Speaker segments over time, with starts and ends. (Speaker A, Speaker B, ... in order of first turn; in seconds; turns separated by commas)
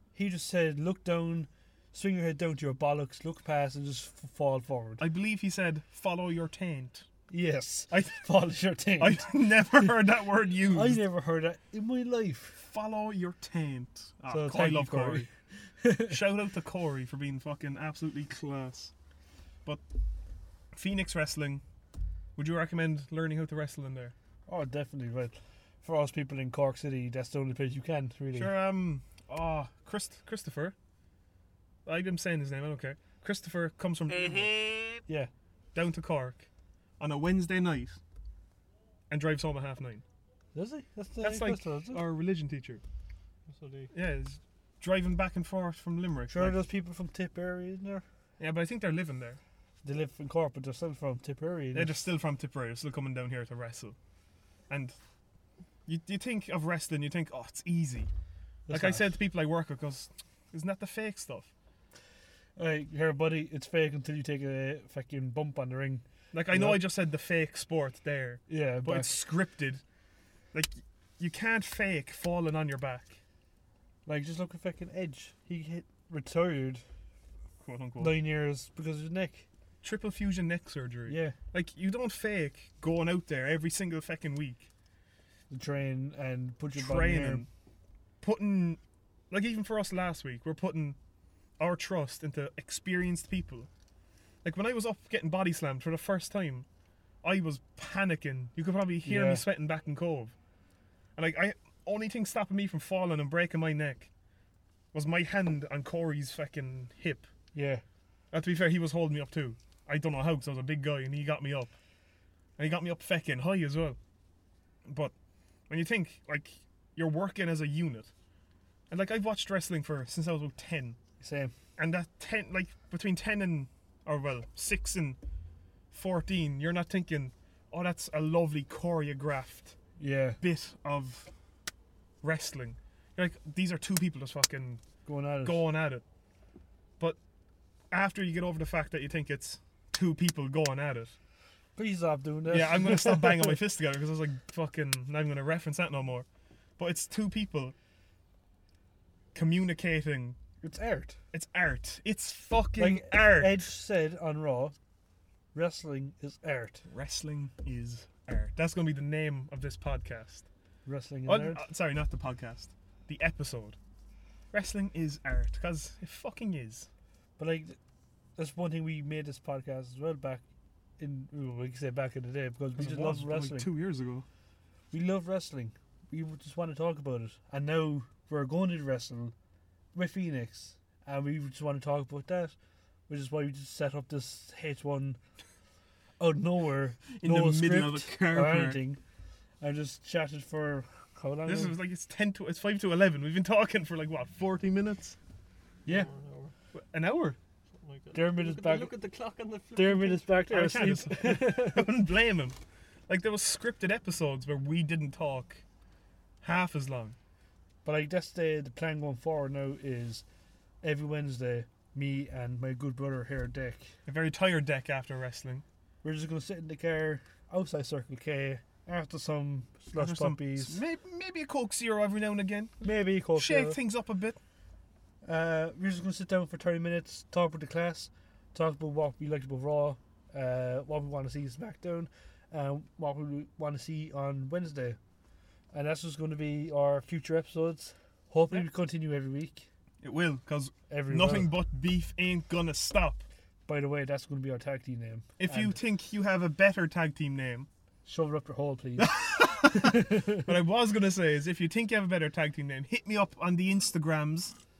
Speaker A: 0.1-5.0, Speaker B: 5.0-7.1, Speaker A: 7.3-9.3, Speaker B: 9.0-11.0, Speaker A: 10.7-12.6, Speaker B: 12.6-15.3, Speaker A: 14.3-16.2, Speaker B: 16.1-18.9, Speaker B: 20.7-21.6, Speaker B: 22.4-24.1, Speaker A: 24.5-28.5, Speaker B: 28.3-30.7, Speaker B: 31.9-34.6, Speaker B: 35.7-36.5, Speaker B: 37.0-38.0, Speaker B: 39.1-40.0, Speaker A: 40.5-42.0, Speaker B: 41.2-42.8, Speaker C: 43.5-43.9, Speaker B: 43.9-46.6, Speaker A: 46.3-48.0, Speaker B: 48.4-49.4, Speaker A: 49.8-52.0, Speaker B: 51.7-54.0, Speaker B: 54.7-55.0, Speaker B: 55.9-58.1, Speaker A: 58.7-59.1, Speaker B: 58.7-61.5, Speaker A: 62.6-66.8, Speaker B: 66.3-69.8, Speaker A: 68.5-69.1, Speaker B: 70.5-73.2, Speaker A: 74.0-76.8, Speaker B: 77.6-78.1, Speaker A: 78.0-79.5, Speaker B: 79.8-84.7, Speaker A: 81.1-81.4, Speaker A: 85.5-87.5, Speaker B: 86.7-87.5, Speaker B: 88.2-88.8, Speaker B: 89.3-91.0, Speaker B: 91.6-93.7, Speaker B: 94.4-96.7, Speaker B: 97.2-100.3, Speaker A: 99.0-99.4, Speaker B: 101.2-104.1, Speaker B: 104.9-107.3, Speaker A: 107.5-107.8, Speaker B: 108.3-111.7, Speaker B: 112.6-114.0, Speaker B: 114.8-115.1, Speaker B: 115.7-118.1, Speaker B: 118.9-121.0, Speaker A: 121.2-121.5, Speaker B: 121.8-125.2, Speaker B: 125.9-129.8, Speaker A: 130.0-130.4, Speaker B: 130.4-131.3, Speaker B: 132.2-134.8, Speaker A: 135.1-135.6, Speaker B: 135.4-136.0, Speaker B: 137.9-141.1, Speaker A: 141.8-143.6, Speaker B: 142.5-146.2, Speaker B: 146.8-147.7, Speaker B: 149.3-150.4, Speaker A: 150.6-151.2, Speaker B: 151.3-153.5, Speaker A: 152.8-154.7, Speaker A: 155.5-156.8, Speaker B: 156.8-160.5, Speaker A: 160.8-161.6, Speaker B: 161.2-163.8, Speaker B: 164.5-166.9, Speaker A: 167.4-167.8, Speaker A: 168.4-170.4, Speaker A: 171.0-173.7, Speaker B: 172.8-174.2, Speaker A: 174.9-179.3, Speaker A: 179.9-182.5, Speaker A: 183.1-185.2, Speaker A: 186.2-189.0, Speaker B: 187.1-188.8, Speaker A: 189.6-191.8, Speaker B: 191.4-195.2, Speaker C: 195.8-196.5, Speaker B: 196.7-197.4, Speaker C: 197.8-200.8, Speaker A: 198.1-198.9, Speaker A: 199.7-201.9, Speaker B: 200.5-202.6, Speaker B: 203.1-205.6, Speaker B: 206.4-207.2, Speaker A: 207.8-210.2, Speaker A: 210.8-213.9, Speaker B: 214.1-215.6, Speaker A: 216.0-220.8, Speaker B: 220.0-224.4, Speaker A: 222.8-223.8, Speaker A: 225.2-235.0, Speaker A: 235.7-239.7, Speaker B: 240.0-243.2, Speaker A: 240.9-241.5, Speaker A: 243.7-245.8, Speaker B: 245.4-247.7, Speaker A: 248.0-249.2, Speaker B: 249.0-254.5, Speaker A: 249.7-250.5